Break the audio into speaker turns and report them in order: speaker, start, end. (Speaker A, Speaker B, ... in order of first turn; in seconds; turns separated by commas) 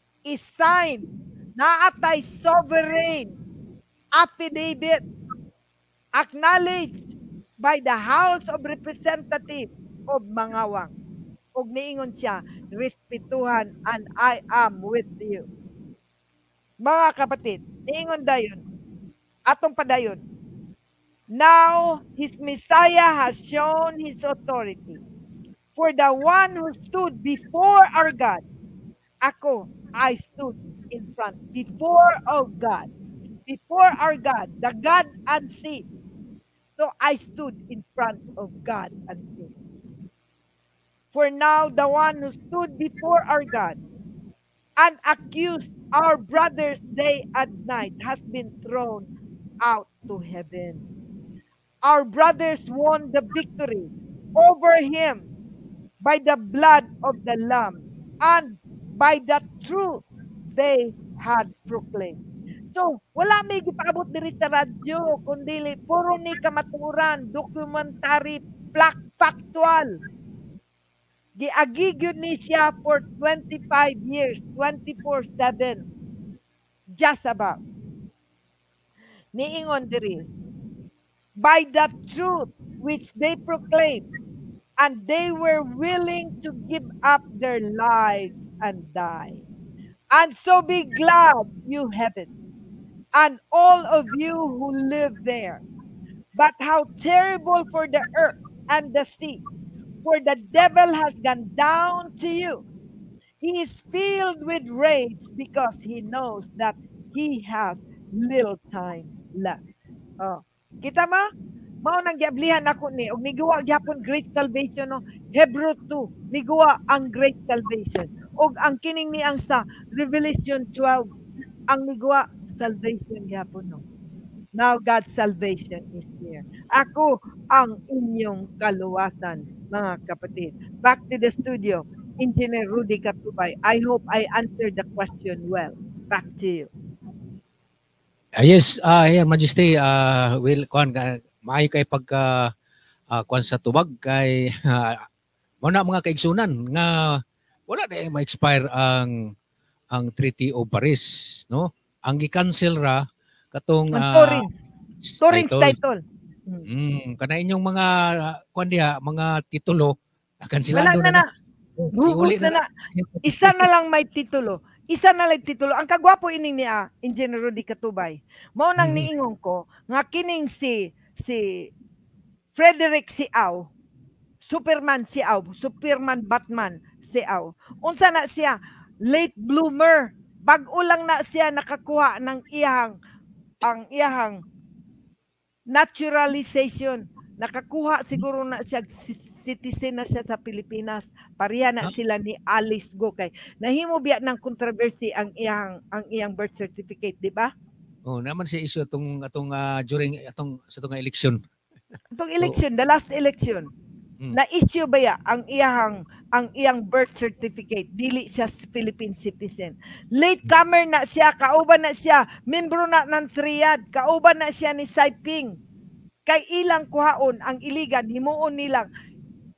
Speaker A: 0.3-3.3, Speaker A: 4.2-5.0, Speaker A: 6.2-7.0, Speaker A: 7.6-10.9, Speaker A: 11.6-15.4, Speaker A: 16.8-18.6, Speaker A: 19.5-20.2, Speaker A: 21.3-25.0, Speaker A: 25.8-28.4, Speaker A: 29.2-32.9, Speaker A: 33.5-35.9, Speaker A: 36.8-39.5, Speaker A: 41.1-43.8, Speaker A: 44.8-49.1, Speaker A: 49.6-50.8, Speaker A: 51.9-55.3, Speaker A: 56.0-62.2, Speaker A: 62.7-70.0, Speaker A: 71.4-75.9, Speaker A: 77.0-77.6, Speaker A: 79.3-80.3, Speaker A: 81.4-84.1, Speaker A: 84.8-89.4, Speaker A: 90.1-92.3, Speaker A: 93.2-95.6, Speaker A: 96.4-99.4, Speaker A: 100.0-102.6, Speaker A: 103.4-109.6, Speaker A: 110.2-111.2, Speaker A: 111.8-121.1, Speaker A: 121.7-123.8, Speaker A: 124.6-136.7, Speaker B: 138.4-142.5, Speaker B: 143.1-145.0, Speaker B: 145.6-149.3, Speaker B: 149.9-154.5, Speaker A: 153.9-154.6, Speaker B: 155.0-155.8, Speaker A: 155.2-156.7, Speaker B: 156.7-161.3, Speaker A: 160.7-161.3, Speaker B: 161.8-163.7, Speaker A: 161.9-162.7, Speaker A: 163.2-171.7, Speaker B: 168.8-169.1, Speaker A: 172.6-173.7, Speaker A: 174.4-182.9, Speaker A: 183.6-184.4, Speaker A: 185.7-197.5, Speaker B: 198.1-201.4, Speaker A: 202.2-203.7, Speaker A: 204.3-215.6, Speaker A: 216.3-218.9